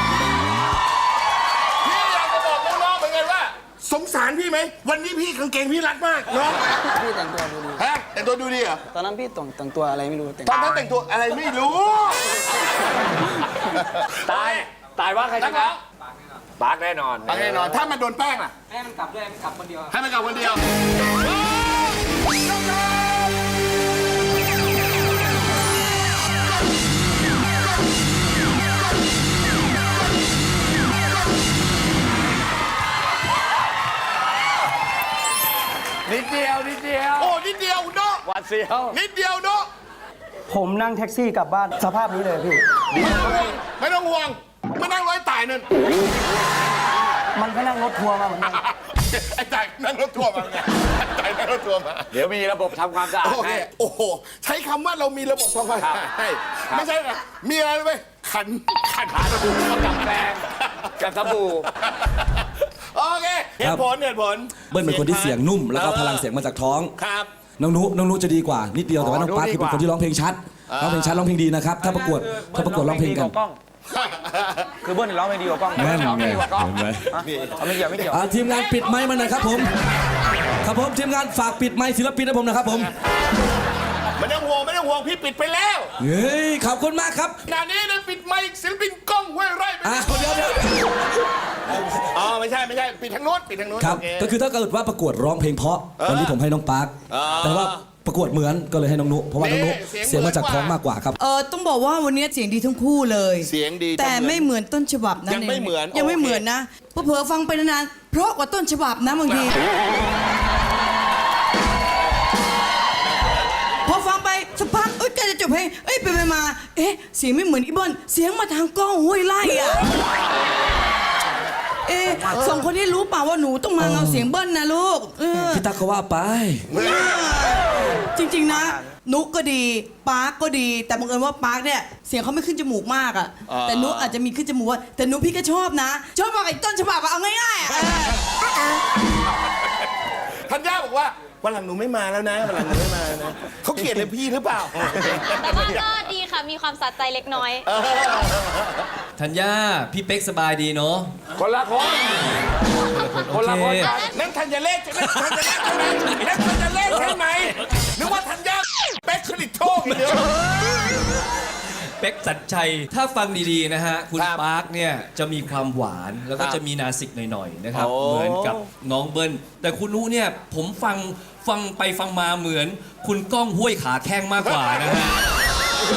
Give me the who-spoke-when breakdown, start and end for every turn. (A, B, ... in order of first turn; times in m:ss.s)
0:01.8-0:06.8 A
0:07.0-0:07.8 B
0:07.8-0:08.8 A
0:08.9-0:10.8 B
0:10.4-0:12.4 A
0:13.6-0:14.7 A
0:14.3-0:15.6 C
0:15.3-0:15.8 A
0:16.6-0:17.4 C
0:17.2-0:18.5 A
0:19.8-0:20.6 A
0:36.1-0:37.1 C
0:37.2-0:38.3 A
0:38.9-0:39.7 A
0:40.5-0:42.6 B
0:42.9-0:45.7 A
0:47.4-0:48.6 B
0:48.5-0:52.3 A
0:52.3-0:53.5 C
0:52.9-1:01.7 A
1:01.0-1:01.6 C
1:02.9-1:06.2 A
1:04.7-1:06.9 D
1:07.0-1:07.3 A
1:07.6-1:13.4 D
1:09.3-1:09.7 B
1:10.7-1:11.2 A
1:11.8-1:13.6 B
1:13.9-1:14.8 A
1:14.9-1:16.6 B
1:15.7-1:17.2 D
1:17.2-1:18.2 A
1:17.8-1:18.1 B
1:18.1-1:19.7 D
1:20.6-1:22.9 D
1:24.1-1:25.9 A
1:26.0-1:27.4 D
1:27.4-1:30.3 A
1:29.8-1:30.9 D
1:32.0-1:34.3 A
1:33.8-1:41.2 D
1:36.0-1:36.4 A
1:37.1-1:37.8 A
1:39.4-1:40.8 A
1:41.2-1:49.6 E
1:43.4-1:44.4 A
1:45.2-1:46.4 A
1:53.8-1:59.8 E
2:01.8-2:05.7 E
2:02.3-2:02.7 A
2:03.8-2:04.3 D
2:05.3-2:06.7 D
2:06.7-2:07.2 A
2:06.7-2:18.2 E
2:13.5-2:14.1 A
2:20.5-2:25.8 A
2:25.4-2:27.7 F
2:27.7-2:28.6 A
2:29.2-2:31.1 G
2:31.4-2:32.0 A
2:32.9-2:34.0 G
2:33.8-2:34.1 F
2:34.1-2:40.3 A
2:42.0-2:55.2 G
2:44.2-2:44.4 A
2:47.7-2:48.6 A
2:54.4-2:55.0 A